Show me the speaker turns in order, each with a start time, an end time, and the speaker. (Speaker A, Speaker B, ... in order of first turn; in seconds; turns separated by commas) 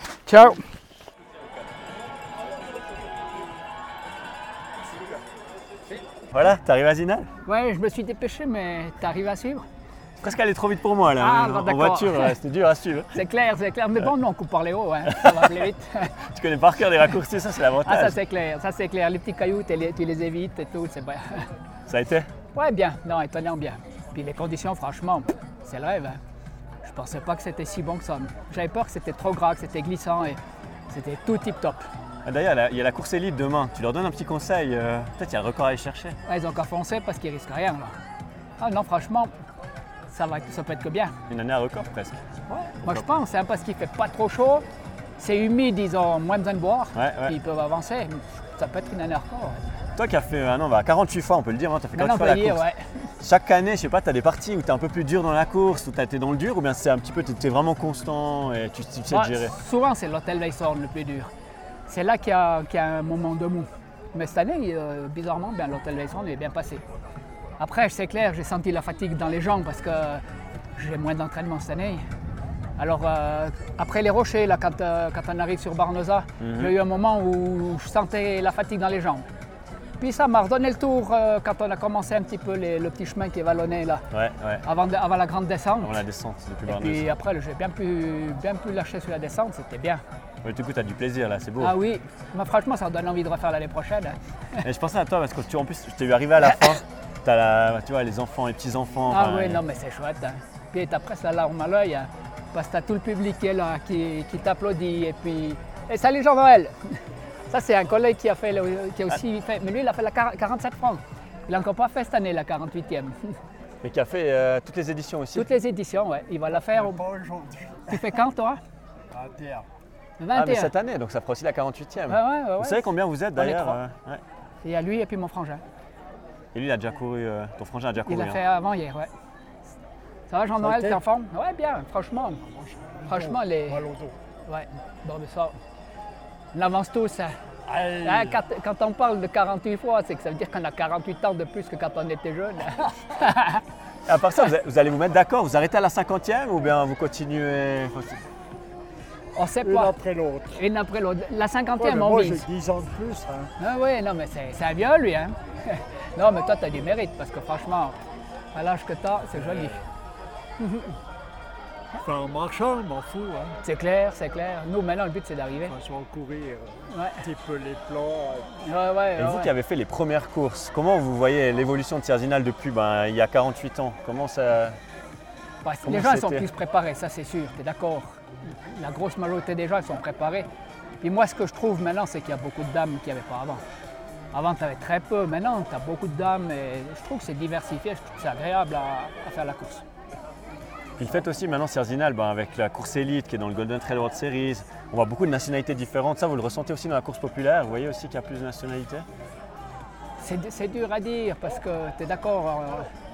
Speaker A: 0.3-0.6, Speaker B: 6.3-7.3, Speaker A: 7.4-9.6, Speaker B: 10.2-13.2, Speaker A: 11.2-12.4, Speaker A: 13.1-16.2, Speaker B: 15.1-15.6, Speaker B: 16.2-18.2, Speaker A: 17.7-21.4, Speaker B: 21.9-22.3, Speaker A: 22.5-26.2, Speaker A: 26.8-30.4, Speaker A: 30.9-31.8, Speaker B: 32.2-36.2, Speaker A: 36.3-37.9, Speaker A: 38.6-39.3, Speaker A: 40.1-41.1, Speaker B: 41.3-42.2, Speaker A: 42.5-44.6, Speaker A: 45.2-49.6, Speaker B: 46.9-47.4, Speaker B: 50.0-52.6, Speaker A: 51.9-52.9, Speaker B: 53.2-59.5, Speaker A: 59.1-61.3, Speaker A: 61.9-66.8, Speaker A: 67.6-70.2, Speaker A: 70.8-72.0, Speaker A: 72.8-79.3, Speaker B: 76.4-76.8, Speaker A: 80.0-84.0, Speaker B: 84.1-84.6, Speaker A: 84.6-86.0, Speaker B: 85.8-87.1, Speaker A: 86.7-90.0, Speaker B: 90.4-91.8, Speaker A: 91.6-94.6, Speaker B: 94.6-99.6, Speaker A: 99.1-107.0, Speaker A: 107.5-113.2, Speaker B: 113.8-115.5, Speaker A: 115.3-117.0, Speaker C: 116.5-118.0, Speaker A: 117.9-118.6, Speaker C: 119.1-119.7, Speaker A: 120.2-120.7, Speaker B: 120.3-124.2, Speaker A: 122.1-123.8, Speaker A: 124.6-125.6, Speaker B: 126.5-128.4, Speaker A: 128.0-129.1, Speaker A: 130.3-132.4, Speaker C: 130.6-131.0, Speaker C: 132.6-134.2, Speaker A: 133.1-133.8, Speaker A: 134.4-135.5, Speaker A: 136.5-137.3, Speaker C: 137.7-138.4, Speaker A: 138.0-143.6, Speaker B: 144.1-148.2, Speaker A: 149.3-149.9, Speaker C: 149.6-150.6, Speaker A: 150.5-152.4, Speaker C: 151.8-153.5, Speaker A: 153.6-158.0, Speaker A: 158.5-159.8, Speaker C: 159.4-159.8, Speaker A: 160.6-160.9, Speaker C: 162.0-163.6, Speaker A: 163.6-165.8, Speaker C: 165.7-168.5, Speaker A: 166.9-167.2, Speaker A: 168.6-169.5, Speaker B: 169.2-174.8, Speaker A: 175.6-180.5, Speaker B: 175.8-176.5, Speaker A: 181.0-183.6, Speaker A: 184.3-189.8, Speaker B: 191.0-199.1, Speaker A: 200.2-202.9